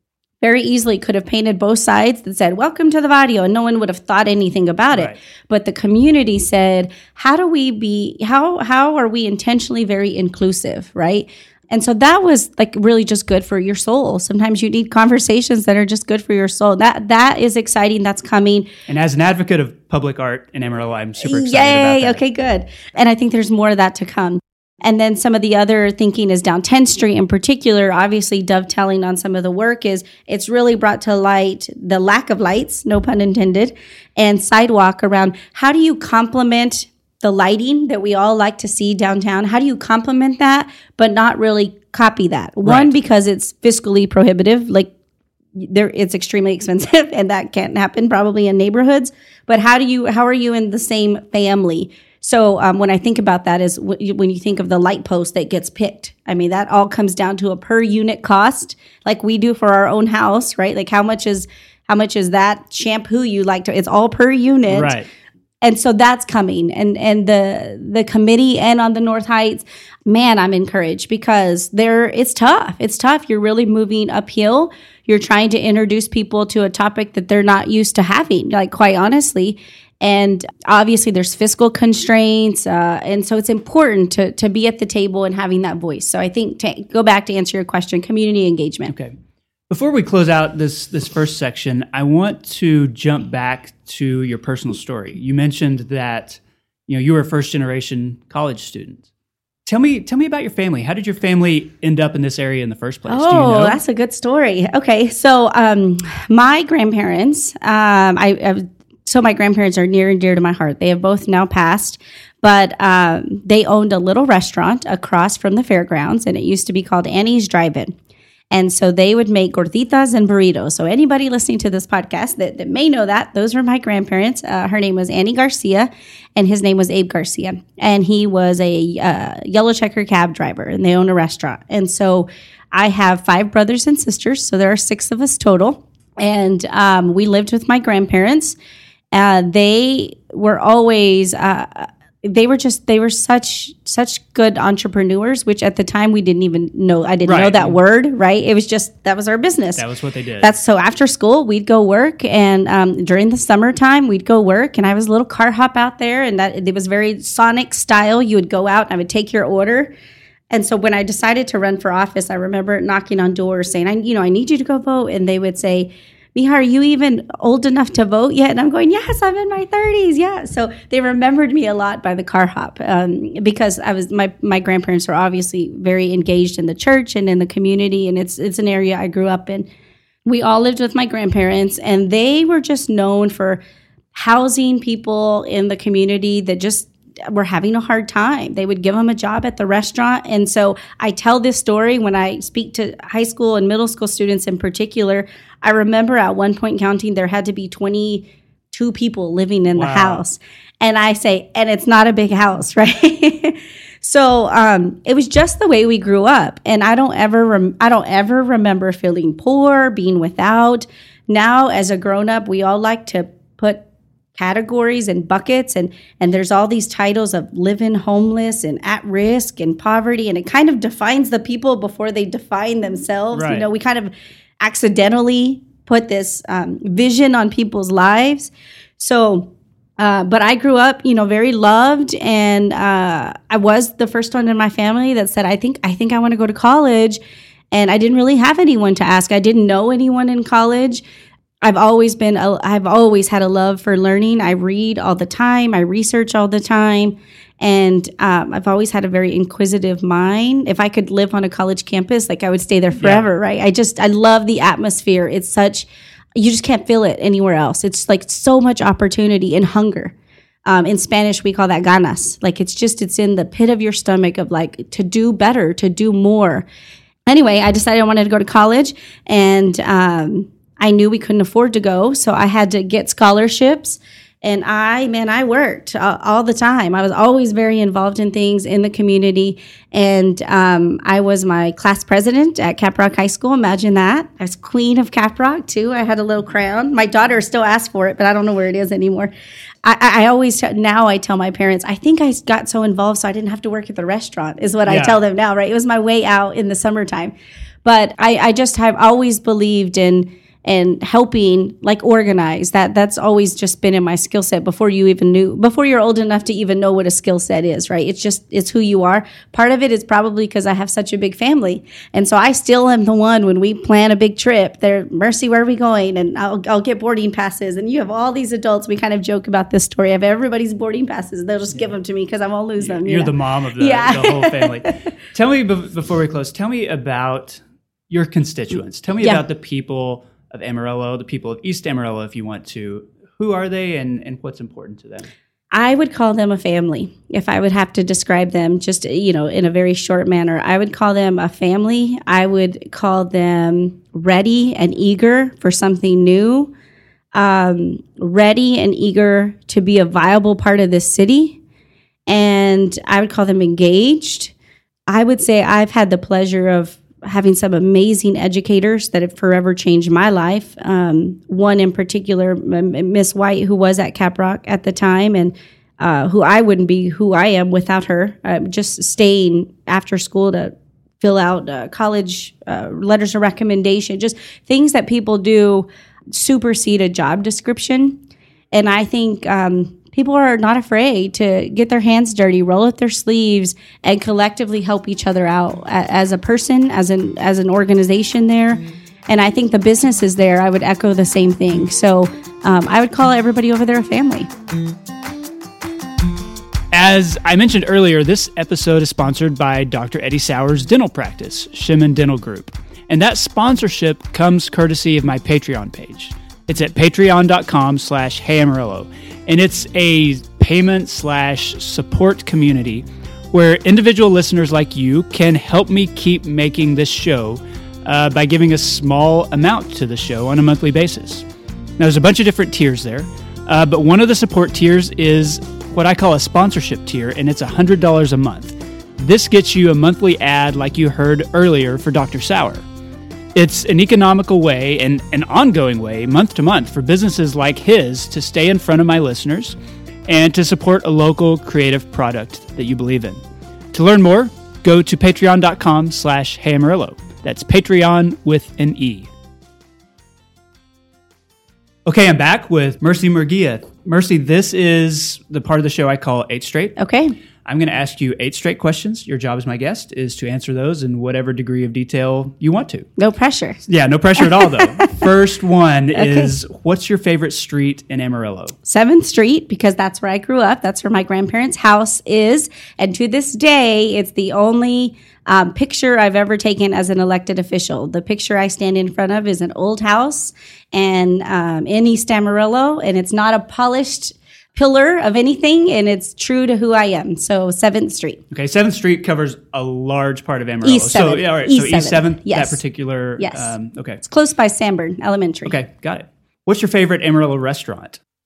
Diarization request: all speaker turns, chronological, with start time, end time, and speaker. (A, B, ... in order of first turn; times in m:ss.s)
0:00.4-0:18.7 A
0:18.9-0:22.2 B
0:21.2-0:44.9 A
0:42.6-0:42.9 B
0:45.6-1:04.9 A
1:04.7-1:05.1 B
1:05.6-1:28.9 A
1:28.9-1:29.2 B
1:29.7-1:39.0 B
1:39.7-1:43.8 B
1:43.1-1:57.9 A
1:58.5-2:18.6 A
2:19.1-2:29.8 A
2:27.3-2:27.8 B
2:29.8-2:30.5 B
2:30.4-2:39.9 A
2:40.5-2:59.7 A
3:00.3-3:03.6 A
3:04.1-3:33.8 A
3:19.8-3:20.2 B
3:34.4-3:57.2 A
3:43.3-3:43.7 B
3:57.7-4:01.0 A
4:01.6-4:20.1 A
4:13.0-4:13.3 B
4:20.7-4:26.7 A
4:27.3-4:49.3 A
4:49.8-4:57.3 A
4:54.9-4:55.2 B
4:57.8-5:25.1 A
5:22.8-5:35.3 B
5:35.7-5:46.7 A
5:47.4-5:51.6 A
5:52.3-5:54.5 A
5:55.1-6:18.2 A
6:18.7-6:34.5 A
6:36.9-7:01.4 B
7:02.0-7:12.8 B
7:13.6-7:19.8 B
7:20.3-7:23.4 B
7:23.9-7:29.3 B
7:32.0-7:37.0 B
7:37.0-7:37.4 A
7:37.6-7:43.1 B
7:43.2-7:43.8 A
7:43.8-7:48.8 B
7:44.4-7:45.3 A
7:46.1-7:46.5 A
7:48.9-8:08.4 A
8:08.5-8:14.2 B
8:10.8-8:12.8 A
8:13.4-8:15.8 A
8:15.7-8:18.2 B